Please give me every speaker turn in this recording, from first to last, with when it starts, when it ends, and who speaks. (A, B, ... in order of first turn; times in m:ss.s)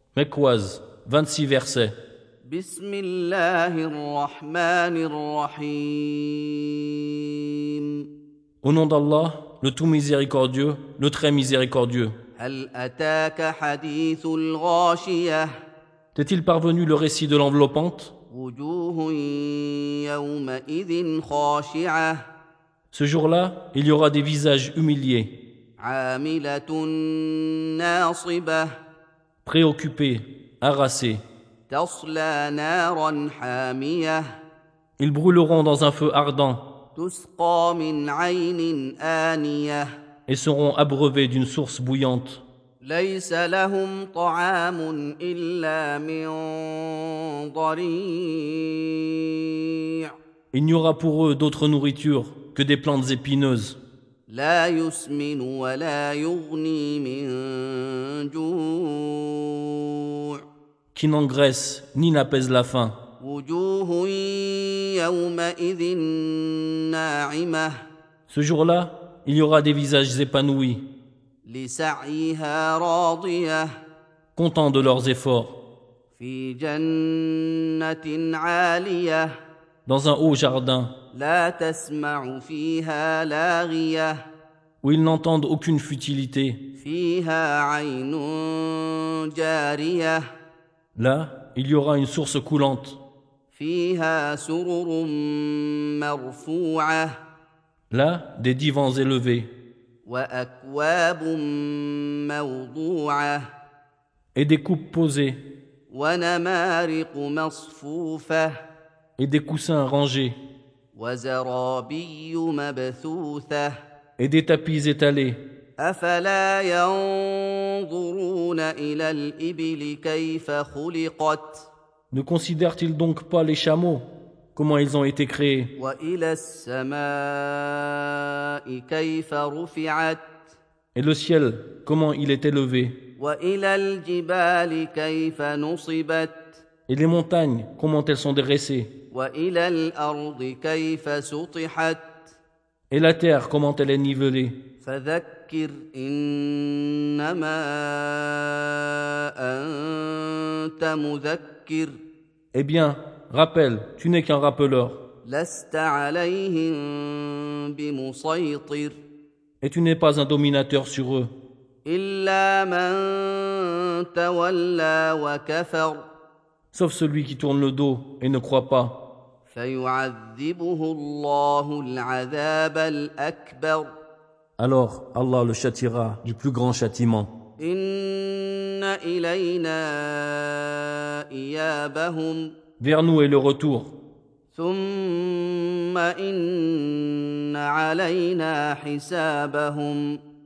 0:00.1-0:01.9 A
0:02.5-0:07.8 B
0:08.6-0:12.1 A
0:12.4-0:15.5 B
0:16.1-0:18.1 A
0:18.3-0:22.2 B
0:22.9-0:25.3 A
0:25.8-0:28.7 B
0:29.4-0:31.2 A
0:31.7-0:34.2 B
0:35.0-0:36.6 A
0:37.0-0:39.8 B
0:40.3-0:42.4 A
0:42.8-0:50.0 B
0:50.5-0:53.8 A
0:54.3-1:00.0 B
1:00.9-1:02.9 A
1:03.2-1:07.7 B
1:08.3-1:10.8 A
1:11.4-1:13.7 B
1:14.3-1:15.6 A
1:16.2-1:19.3 B
1:19.8-1:20.9 A
1:21.1-1:24.2 B
1:24.8-1:26.6 A
1:26.8-1:30.2 B
1:31.0-1:33.0 A
1:33.5-1:37.1 B
1:37.9-1:39.5 A
1:40.0-1:43.4 B
1:44.3-1:45.4 A
1:45.9-1:48.5 B
1:49.2-1:50.4 A
1:50.9-1:53.7 B
1:54.2-1:55.4 A
1:55.8-2:01.7 B
2:02.1-2:05.7 A
2:05.8-2:10.6 B
2:10.9-2:13.0 A
2:13.2-2:16.6 B
2:16.9-2:18.9 A
2:19.1-2:22.1 B
2:22.9-2:24.6 A
2:24.8-2:31.9 B
2:32.5-2:35.0 A
2:35.2-2:39.0 B
2:39.6-2:41.3 A
2:41.8-2:46.0 B
2:46.7-2:49.0 A
2:49.5-2:53.9 B
2:54.6-2:57.3 A
2:57.6-3:02.5 B
3:02.8-3:03.9 A
3:04.5-3:10.2 B